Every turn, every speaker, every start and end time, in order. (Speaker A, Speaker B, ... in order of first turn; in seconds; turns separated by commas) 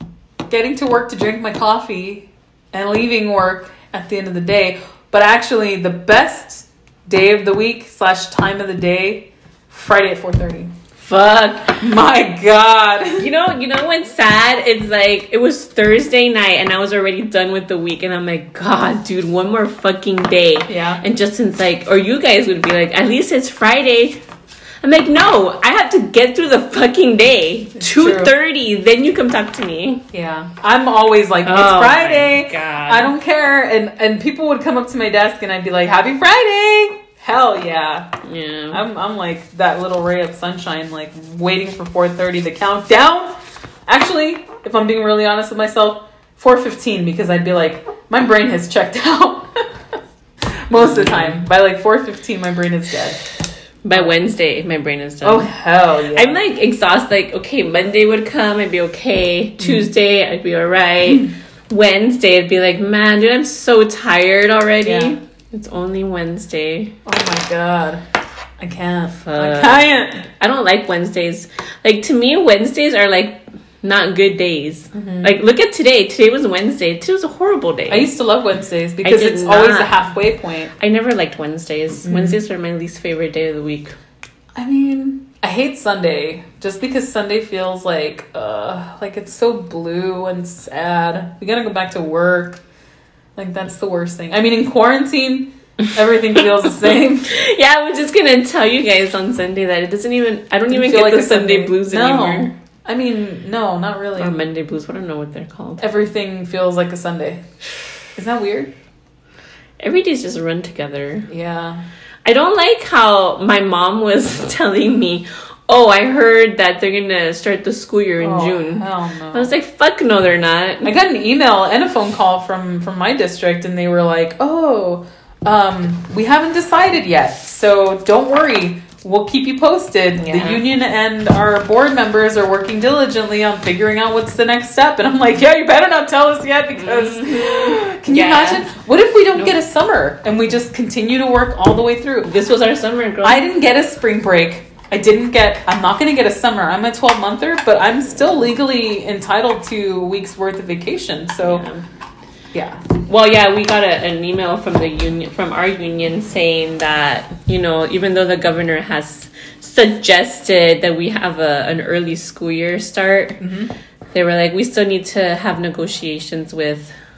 Speaker A: 0.5-10.7, Speaker B: 11.0-11.8, Speaker A: 11.8-13.3, Speaker B: 13.2-24.2, Speaker A: 20.7-21.0, Speaker B: 24.8-30.0, Speaker A: 27.8-28.3, Speaker A: 30.1-38.1, Speaker B: 31.4-33.1, Speaker B: 38.2-38.8, Speaker A: 38.7-43.3, Speaker A: 43.9-49.7, Speaker A: 50.7-53.2, Speaker B: 50.7-51.4, Speaker B: 53.8-55.5, Speaker A: 55.2-56.4, Speaker B: 56.1-67.0, Speaker A: 59.6-59.9, Speaker A: 64.8-65.2, Speaker A: 67.0-68.0, Speaker A: 68.6-70.2, Speaker B: 69.2-78.1, Speaker A: 74.9-75.3, Speaker A: 77.9-80.7, Speaker B: 79.0-80.0, Speaker B: 80.8-84.0, Speaker A: 82.0-82.4, Speaker A: 84.5-92.6, Speaker A: 93.3-97.4, Speaker B: 97.2-102.5, Speaker A: 100.7-104.3, Speaker B: 104.2-105.8, Speaker A: 105.8-107.4, Speaker A: 108.2-108.7, Speaker B: 109.8-111.3, Speaker A: 111.3-111.8, Speaker B: 112.2-120.9, Speaker A: 118.2-119.5, Speaker A: 120.8-142.3, Speaker B: 130.2-130.6, Speaker B: 136.8-138.7, Speaker B: 142.2-143.4, Speaker A: 143.2-151.6, Speaker B: 151.4-151.8, Speaker A: 152.5-152.8, Speaker B: 153.0-163.4, Speaker A: 163.4-163.7, Speaker B: 164.1-166.9